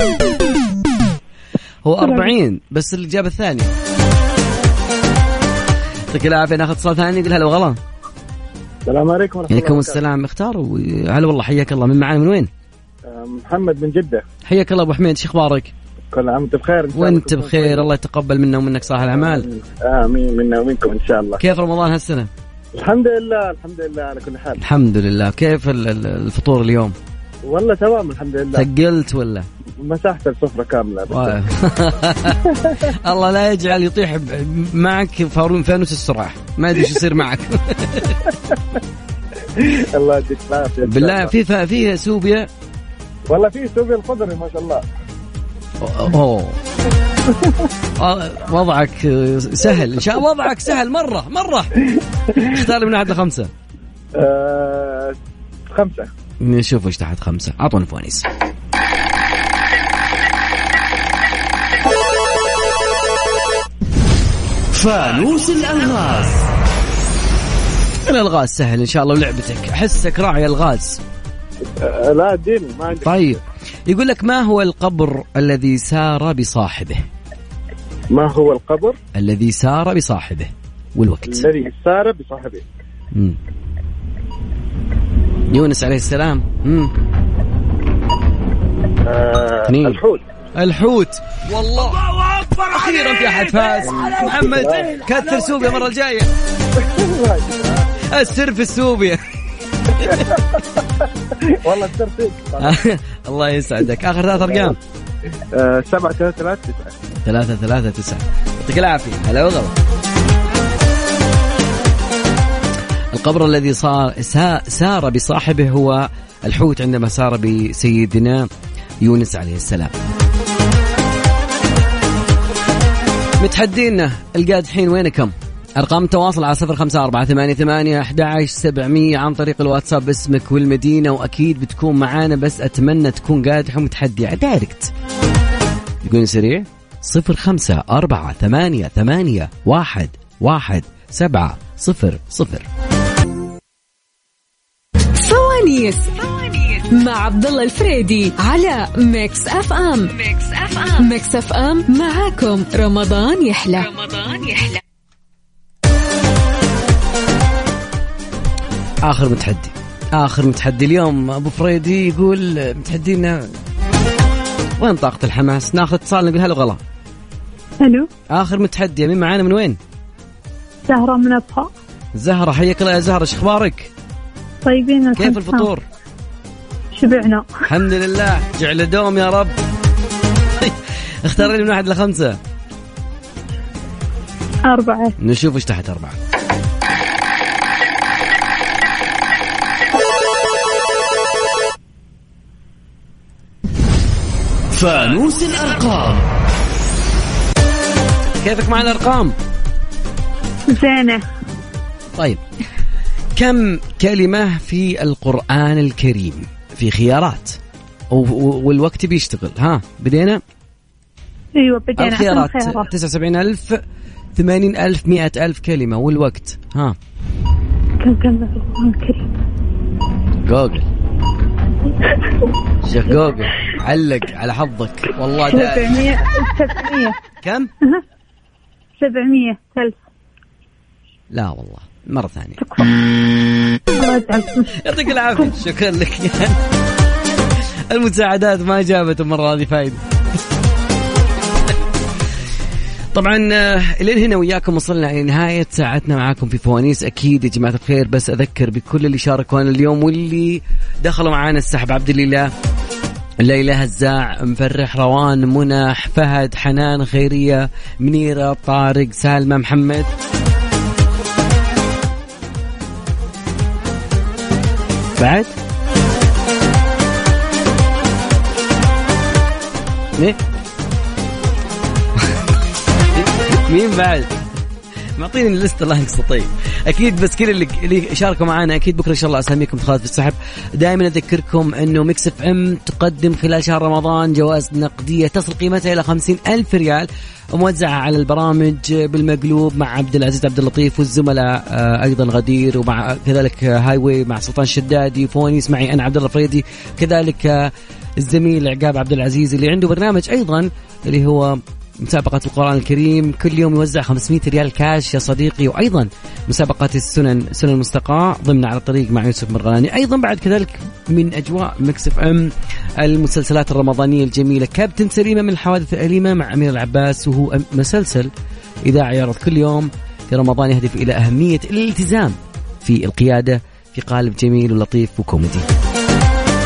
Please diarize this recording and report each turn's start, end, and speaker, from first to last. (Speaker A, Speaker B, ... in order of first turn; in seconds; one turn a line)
Speaker A: 1.9-3.7
Speaker A: 6.1-7.8
Speaker B: 8.9-10.0
Speaker A: 9.5-12.5
Speaker B: 13.1-14.2
Speaker A: 14.5-15.7
Speaker B: 16.1-17.9
Speaker A: 16.9-19.5
Speaker B: 18.9-21.4
Speaker A: 21.4-22.3
Speaker B: 22.8-24.6
Speaker A: 24.6-26.9
Speaker B: 27.5-28.7
Speaker A: 28.6-29.5
Speaker B: 29.8-31.4
Speaker A: 31.1-32.4
Speaker A: 32.9-38.2
Speaker B: 39.6-41.3
Speaker A: 40.8-42.5
Speaker B: 43.3-44.8
Speaker A: 45.8-46.6
Speaker A: 48.0-51.7
Speaker A: 52.4-53.5
Speaker B: 54.2-55.1
Speaker B: 55.7-56.1
Speaker A: 56.4-58.3
Speaker C: 64.7-66.5
Speaker A: 68.1-71.0
Speaker B: 71.8-73.2
Speaker A: 72.9-77.1
Speaker B: 78.1-79.0
Speaker A: 79.2-81.5
Speaker B: 81.3-82.7
Speaker A: 85.5-86.9
Speaker B: 89.0-90.2
Speaker A: 89.7-90.0
Speaker A: 90.5-96.3
Speaker C: 92.1-92.5
Speaker B: 93.8-95.0
Speaker B: 96.8-98.3
Speaker A: 98.1-99.2
Speaker A: 100.0-100.3
Speaker B: 100.0-100.4
Speaker B: 101.6-102.8
Speaker A: 102.6-104.8
Speaker B: 104.4-104.7
Speaker B: 105.5-106.9
Speaker A: 107.2-109.7
Speaker A: 113.1-118.5
Speaker A: 119.0-120.0
Speaker A: 123.4-134.9
Speaker A: 136.0-142.7
Speaker D: 145.2-154.8
Speaker A: 159.1-163.5
Speaker A: 164.8-166.8
Speaker E: 167.8-168.1
Speaker A: 168.3-169.8
Speaker E: 170.9-171.7
Speaker A: 172.2-173.9
Speaker E: 174.7-175.7
Speaker A: 175.2-175.8
Speaker E: 176.9-177.5
Speaker A: 177.7-179.6
Speaker A: 180.6-182.4
Speaker E: 184.7-185.2
Speaker A: 185.2-186.2
Speaker C: 194.7-196.2
Speaker A: 198.3-199.3
Speaker E: 200.7-201.2
Speaker A: 202.2-202.4
Speaker A: 203.4-207.6
Speaker A: 208.1-210.4
Speaker E: 211.6-212.9
Speaker A: 212.0-213.8
Speaker A: 214.4-217.0
Speaker E: 218.0-219.2
Speaker A: 220.5-220.9
Speaker A: 222.8-226.0
Speaker E: 225.4-227.2
Speaker A: 227.4-227.7
Speaker E: 229.0-230.0
Speaker A: 231.3-232.6
Speaker E: 232.6-232.9
Speaker E: 234.0-234.8
Speaker A: 234.8-236.6
Speaker A: 237.9-240.0
Speaker A: 243.2-252.5
Speaker A: 253.4-260.1
Speaker A: 265.2-265.5
Speaker A: 273.1-274.4
Speaker A: 275.2-318.3
Speaker A: 318.9-325.7